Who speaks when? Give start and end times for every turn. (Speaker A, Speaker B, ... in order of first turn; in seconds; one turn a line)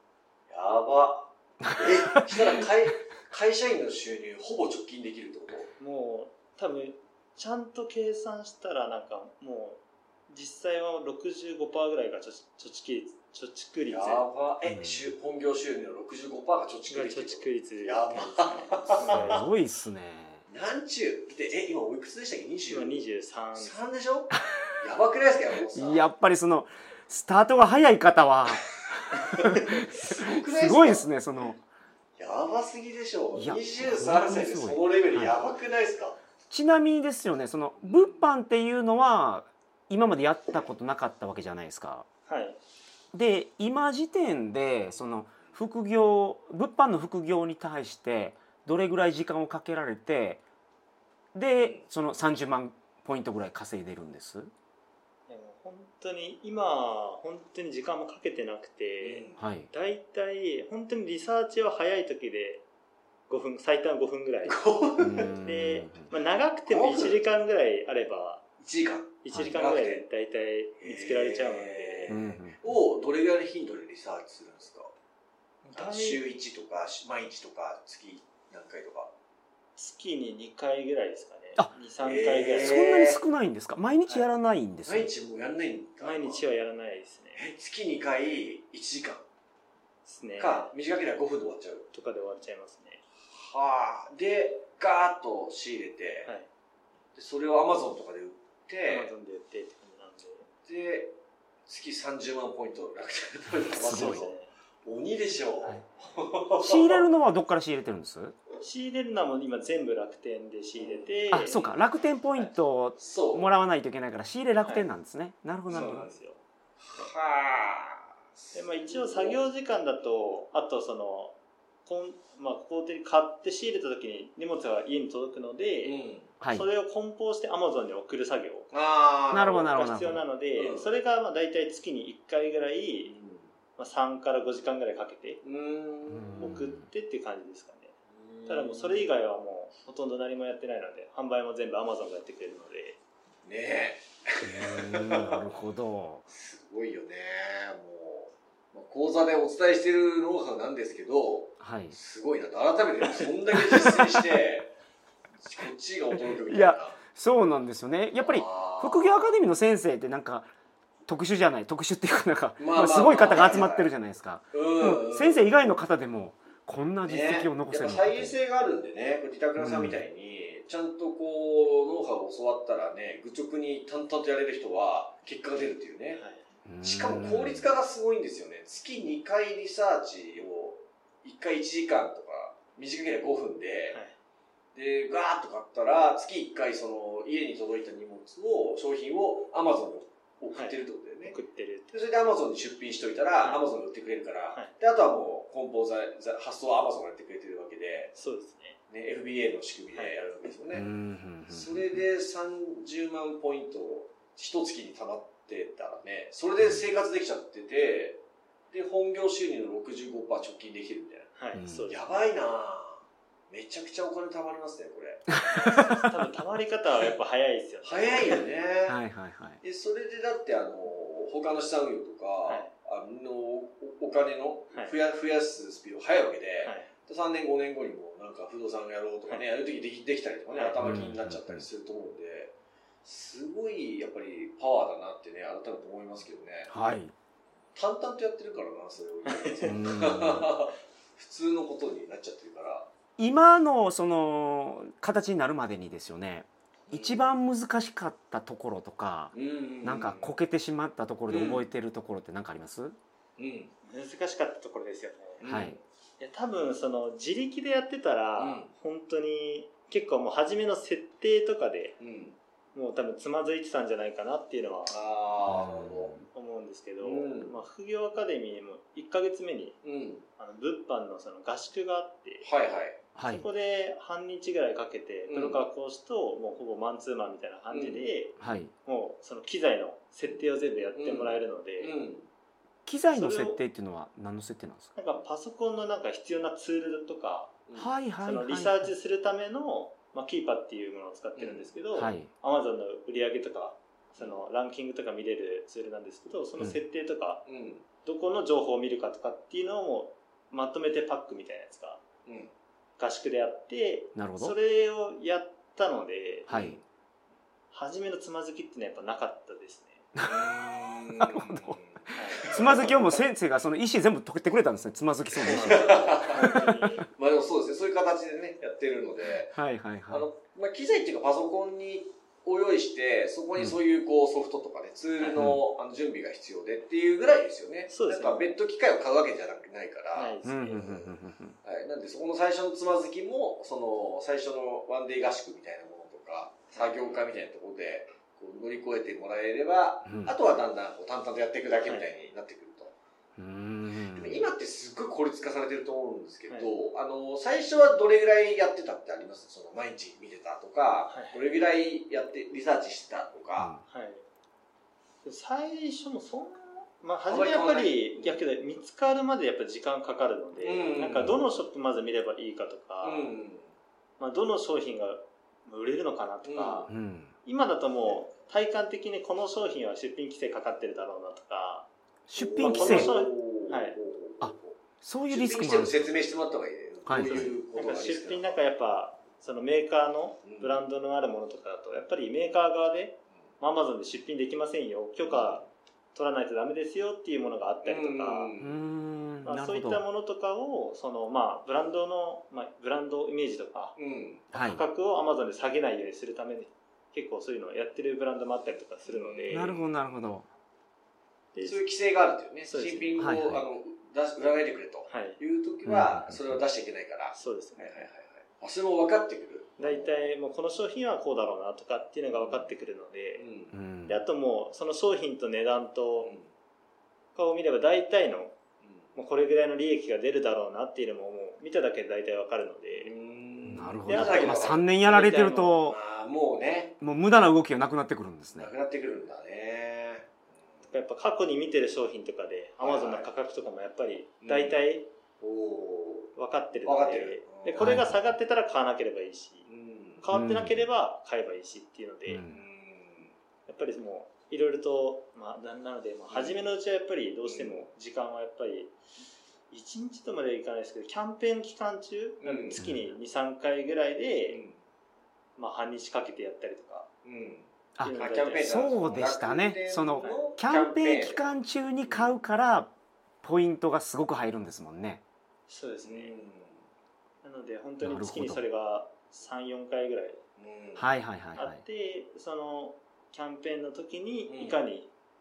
Speaker A: 0.5-5.7
Speaker B: 1.6-2.6
Speaker C: 5.8-14.2
Speaker A: 13.9-19.5
Speaker B: 14.7-15.1
Speaker C: 16.9-19.4
Speaker B: 19.1-20.4
Speaker A: 20.5-23.0
Speaker C: 22.7-23.8
Speaker A: 23.6-26.0
Speaker B: 25.7-31.6
Speaker A: 29.3-31.1
Speaker A: 32.2-36.2
Speaker B: 33.4-35.4
Speaker B: 36.5-42.0
Speaker A: 37.8-38.2
Speaker C: 42.3-42.6
Speaker B: 43.1-50.4
Speaker B: 51.3-54.5
Speaker A: 51.6-51.9
Speaker C: 55.3-62.6
Speaker A: 59.0-59.4
Speaker B: 59.4-59.7
Speaker C: 63.3-64.6
Speaker A: 64.5-65.4
Speaker B: 65.0-66.1
Speaker C: 65.4-68.4
Speaker A: 66.7-67.2
Speaker A: 68.6-70.0
Speaker C: 69.2-72.1
Speaker A: 70.8-74.9
Speaker B: 72.1-72.6
Speaker C: 75.6-76.2
Speaker A: 75.7-79.1
Speaker C: 79.8-83.2
Speaker A: 82.0-83.2
Speaker B: 82.6-85.1
Speaker A: 84.8-86.4
Speaker C: 86.0-87.5
Speaker A: 87.4-89.2
Speaker C: 90.0-90.7
Speaker A: 90.4-91.9
Speaker C: 91.9-93.0
Speaker A: 93.2-96.3
Speaker A: 97.1-99.1
Speaker C: 98.8-100.5
Speaker A: 100.7-101.1
Speaker A: 101.7-104.3
Speaker B: 103.7-104.2
Speaker C: 103.8-104.5
Speaker A: 104.8-107.0
Speaker B: 106.6-108.4
Speaker C: 108.6-111.7
Speaker A: 110.8-111.5
Speaker B: 111.3-116.1
Speaker A: 113.0-113.5
Speaker A: 115.7-116.1
Speaker C: 115.7-116.4
Speaker A: 116.8-119.4
Speaker C: 118.5-126.0
Speaker A: 125.8-126.3
Speaker B: 126.4-126.7
Speaker C: 126.5-128.7
Speaker A: 128.7-129.8
Speaker B: 129.3-130.2
Speaker C: 129.7-133.1
Speaker A: 130.6-130.9
Speaker A: 133.0-133.5
Speaker C: 133.8-135.4
Speaker A: 135.4-136.6
Speaker B: 136.1-136.8
Speaker C: 136.4-137.9
Speaker A: 138.1-139.1
Speaker C: 138.5-143.0
Speaker A: 143.4-145.4
Speaker B: 144.4-146.3
Speaker A: 146.3-154.7
Speaker B: 151.6-152.0
Speaker B: 153.2-154.2
Speaker A: 155.4-157.0
Speaker B: 156.2-160.5
Speaker A: 158.2-159.3
Speaker B: 161.1-168.3
Speaker A: 162.6-163.9
Speaker A: 164.5-165.5
Speaker A: 167.0-176.2
Speaker B: 169.6-170.0
Speaker C: 176.1-176.4
Speaker B: 176.7-177.7
Speaker A: 176.8-184.0
Speaker C: 183.9-184.2
Speaker A: 184.8-191.4
Speaker C: 190.5-191.9
Speaker A: 191.9-198.1
Speaker C: 198.1-198.8
Speaker A: 198.9-200.9
Speaker B: 200.7-202.0
Speaker A: 201.5-208.2
Speaker A: 208.7-211.3
Speaker C: 211.4-212.1
Speaker B: 211.5-211.9
Speaker A: 211.9-215.8
Speaker C: 215.5-218.4
Speaker A: 217.8-219.0
Speaker B: 218.9-219.6
Speaker A: 219.6-236.7
Speaker C: 226.6-226.9
Speaker C: 230.5-231.1
Speaker B: 230.8-231.6
Speaker B: 236.7-237.1
Speaker A: 237.8-242.9
Speaker C: 239.2-239.8
Speaker B: 239.6-240.5
Speaker B: 243.2-253.0
Speaker A: 246.9-247.3
Speaker A: 249.3-250.3
Speaker A: 251.3-251.6
Speaker A: 253.4-253.7
Speaker C: 253.8-255.4
Speaker A: 255.4-255.8
Speaker B: 255.4-255.8
Speaker C: 256.2-262.0
Speaker A: 258.4-258.7
Speaker A: 262.0-262.4
Speaker C: 262.7-265.0
Speaker A: 264.9-266.2
Speaker B: 265.4-266.2
Speaker C: 266.3-269.8
Speaker A: 267.0-267.6
Speaker A: 269.8-270.2
Speaker C: 270.4-272.5
Speaker A: 272.4-273.0
Speaker B: 273.1-273.5
Speaker C: 273.2-281.9
Speaker A: 275.3-275.6
Speaker A: 277.7-278.0
Speaker B: 278.4-278.7
Speaker A: 280.9-282.3
Speaker B: 282.9-284.9
Speaker C: 283.1-283.6
Speaker C: 285.0-287.6
Speaker B: 287.8-288.9
Speaker C: 288.2-297.5
Speaker A: 291.4-291.7
Speaker B: 291.9-292.3
Speaker A: 297.5-297.9
Speaker C: 298.0-302.0
Speaker A: 302.2-302.5
Speaker C: 303.0-306.5
Speaker B: 304.1-304.5
Speaker B: 306.5-306.8
Speaker A: 306.5-306.8
Speaker C: 307.7-310.1
Speaker B: 310.1-310.5
Speaker A: 310.2-313.2
Speaker B: 311.1-311.8
Speaker C: 312.1-312.8
Speaker B: 312.4-316.7
Speaker C: 315.4-317.1
Speaker A: 315.4-342.9
Speaker B: 319.5-320.2
Speaker B: 325.4-325.6
Speaker C: 327.9-328.5
Speaker C: 330.1-330.9
Speaker B: 330.4-331.6
Speaker B: 340.1-340.3
Speaker B: 343.4-344.5
Speaker A: 344.1-353.8
Speaker C: 351.1-351.5
Speaker B: 353.6-353.8
Speaker C: 353.9-354.2
Speaker C: 355.2-363.3
Speaker A: 357.3-358.4
Speaker A: 360.6-361.4
Speaker A: 363.0-363.7
Speaker C: 364.2-366.9
Speaker A: 366.4-366.9
Speaker B: 366.9-367.4
Speaker C: 367.4-371.9
Speaker B: 372.3-373.1
Speaker A: 372.4-374.8
Speaker C: 372.6-374.0
Speaker B: 374.4-376.1
Speaker A: 375.3-378.6
Speaker B: 377.1-377.5
Speaker C: 377.7-385.6
Speaker A: 380.4-380.8
Speaker A: 385.2-385.7
Speaker C: 386.1-388.5
Speaker A: 387.8-388.8
Speaker B: 388.6-390.0
Speaker C: 389.4-394.0
Speaker A: 394.0-394.4
Speaker C: 394.5-399.8
Speaker B: 394.5-394.8
Speaker A: 399.1-399.9
Speaker B: 399.5-400.5
Speaker C: 401.5-401.8
Speaker A: 401.6-410.3
Speaker C: 402.7-403.2
Speaker B: 403.2-403.6
Speaker C: 405.1-405.4
Speaker B: 405.9-406.4
Speaker C: 407.4-408.1
Speaker C: 409.8-413.5
Speaker A: 412.3-412.7
Speaker A: 413.4-413.7
Speaker B: 413.7-414.2
Speaker C: 414.1-416.4
Speaker C: 417.4-418.6
Speaker C: 419.1-423.1
Speaker A: 423.0-424.9
Speaker B: 423.7-426.0
Speaker C: 424.1-425.8
Speaker A: 425.9-427.0
Speaker B: 427.0-428.7
Speaker A: 428.6-430.5
Speaker C: 430.9-435.1
Speaker A: 432.8-433.3
Speaker A: 434.4-434.9
Speaker A: 435.4-436.3
Speaker C: 436.4-439.7
Speaker A: 436.9-438.0
Speaker B: 437.8-438.2
Speaker A: 439.7-440.2
Speaker C: 440.2-442.4
Speaker B: 440.3-440.9
Speaker B: 442.3-442.6
Speaker A: 442.5-443.3
Speaker C: 443.7-448.9
Speaker A: 446.3-446.7
Speaker A: 447.5-447.9
Speaker C: 449.7-454.6
Speaker A: 452.4-452.8
Speaker B: 452.8-453.1
Speaker A: 454.5-454.8
Speaker C: 455.6-457.1
Speaker A: 457.2-461.5
Speaker B: 458.0-462.9
Speaker C: 458.0-458.8
Speaker C: 460.2-460.5
Speaker B: 463.4-465.2
Speaker C: 465.7-466.4
Speaker A: 466.0-466.8
Speaker C: 467.4-470.4
Speaker B: 468.0-468.6
Speaker A: 470.6-471.1
Speaker B: 471.0-471.8
Speaker C: 471.6-475.1
Speaker A: 474.5-474.8